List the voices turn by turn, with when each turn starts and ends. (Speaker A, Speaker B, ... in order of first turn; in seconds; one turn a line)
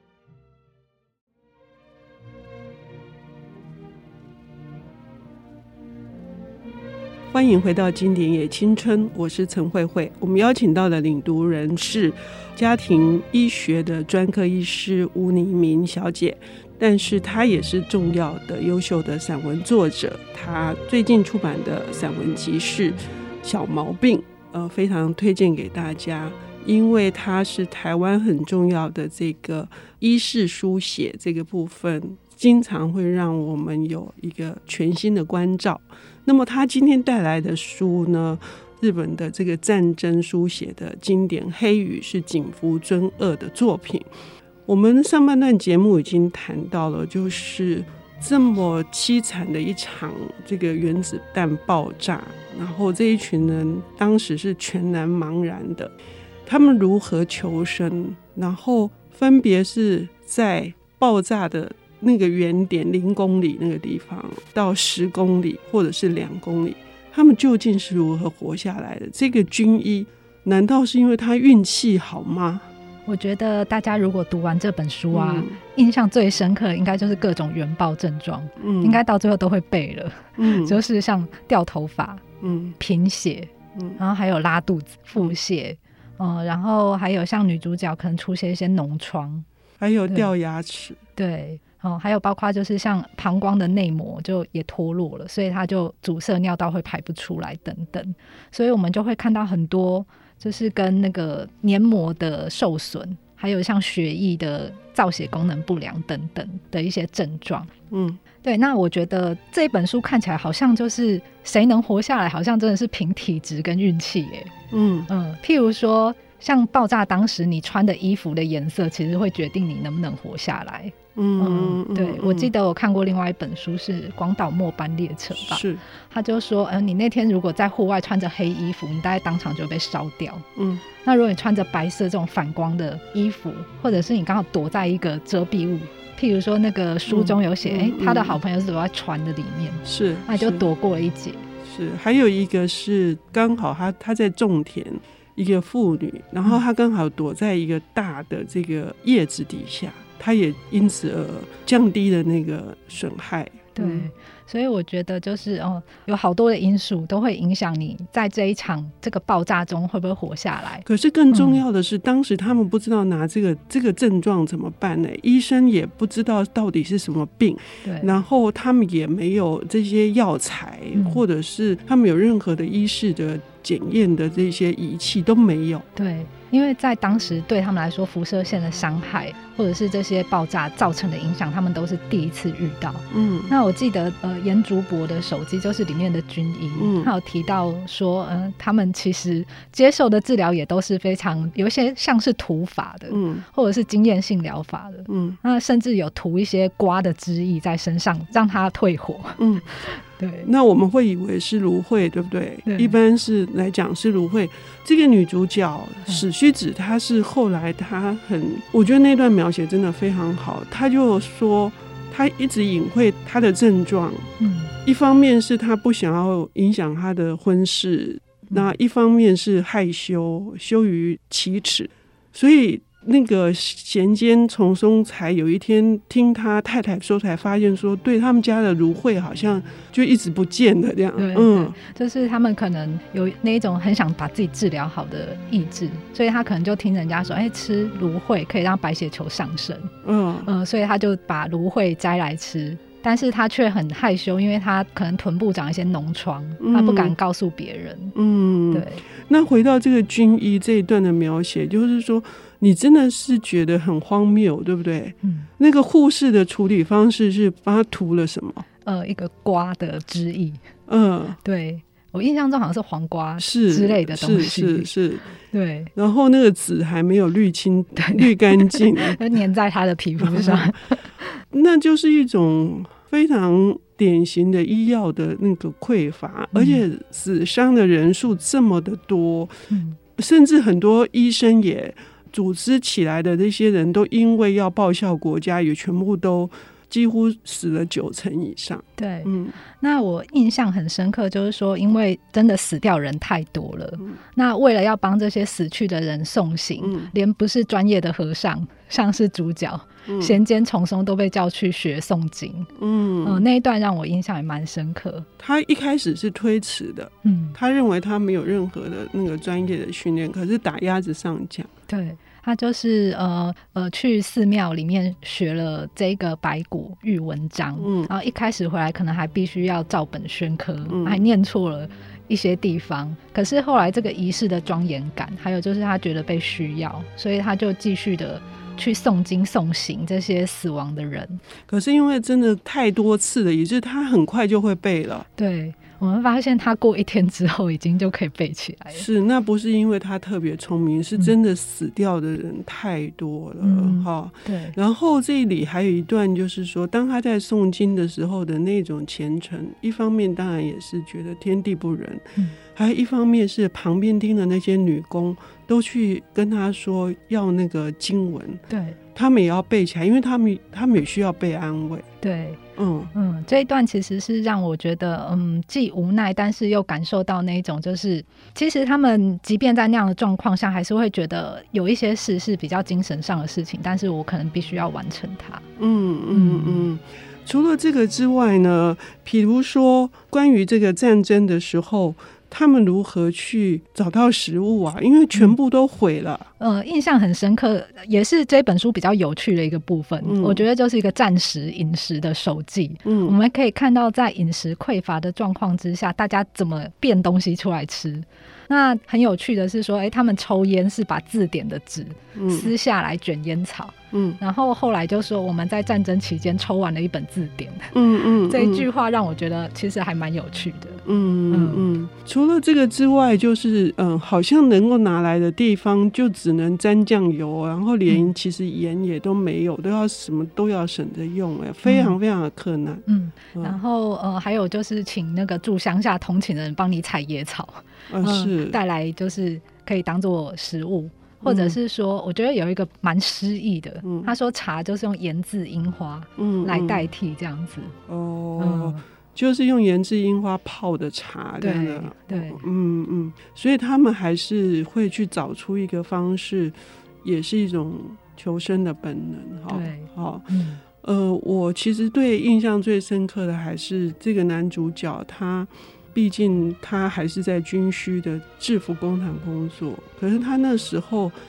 Speaker A: 7.3-44.1
Speaker A: 44.7-55.9
Speaker A: 56.5-72.7
Speaker B: 73.1-82.2
Speaker A: 75.1-75.6
Speaker A: 78.6-79.0
Speaker A: 80.4-80.8
Speaker A: 82.4-82.8
Speaker B: 82.8-89.5
Speaker A: 89.8-91.0
Speaker B: 91.2-107.7
Speaker A: 107.9-108.2
Speaker B: 108.4-114.5
Speaker A: 114.7-115.1
Speaker B: 115.1-130.4
Speaker A: 121.2-122.5
Speaker A: 125.3-125.8
Speaker A: 130.6-130.8
Speaker B: 131.0-141.4
Speaker A: 137.1-138.4
Speaker A: 139.8-140.7
Speaker A: 141.6-154.1
Speaker B: 153.8-161.6
Speaker A: 160.8-175.8
Speaker B: 167.8-168.2
Speaker B: 171.0-171.2
Speaker B: 176.0-200.5
Speaker A: 183.1-183.5
Speaker A: 186.8-187.1
Speaker A: 193.1-193.5
Speaker A: 195.1-195.4
Speaker A: 199.4-199.7
Speaker A: 200.4-214.3
Speaker B: 202.7-203.0
Speaker B: 214.4-214.7
Speaker A: 214.8-231.8
Speaker B: 231.2-239.9
Speaker A: 240.0-240.5
Speaker B: 240.4-248.2
Speaker A: 246.6-247.2
Speaker A: 248.2-258.7
Speaker B: 248.7-249.0
Speaker B: 255.2-255.5
Speaker B: 258.8-260.6
Speaker A: 260.9-261.4
Speaker B: 261.4-264.9
Speaker A: 263.4-265.4
Speaker B: 265.5-265.9
Speaker A: 265.9-269.2
Speaker B: 268.0-271.4
Speaker A: 270.2-270.8
Speaker A: 271.5-279.5
Speaker B: 276.5-276.8
Speaker B: 279.7-280.0
Speaker A: 280.2-289.6
Speaker B: 289.0-302.7
Speaker A: 296.8-297.1
Speaker A: 300.1-300.4
Speaker A: 302.8-303.4
Speaker B: 303.2-305.3
Speaker A: 305.4-311.7
Speaker B: 307.2-307.6
Speaker B: 311.9-331.4
Speaker A: 317.8-318.1
Speaker A: 320.9-321.2
Speaker A: 331.7-335.3
Speaker B: 335.4-339.1
Speaker A: 338.9-358.6
Speaker B: 343.6-344.8
Speaker B: 358.7-359.0
Speaker A: 359.1-362.1
Speaker B: 362.2-362.6
Speaker A: 362.8-363.1
Speaker B: 363.1-375.6
Speaker A: 375.8-386.5
Speaker B: 376.3-376.9
Speaker B: 386.6-411.9
Speaker A: 390.2-390.6
Speaker A: 393.1-393.4
Speaker A: 402.4-402.7
Speaker A: 404.1-404.4
Speaker A: 407.9-408.9
Speaker A: 411.1-423.8
Speaker B: 421.9-422.2
Speaker B: 423.1-438.0
Speaker A: 428.1-428.8
Speaker A: 431.4-431.8
Speaker A: 434.0-434.3
Speaker A: 436.4-437.1
Speaker A: 438.1-450.5
Speaker B: 438.6-439.0
Speaker B: 441.6-442.7
Speaker B: 449.7-450.8
Speaker A: 451.0-461.4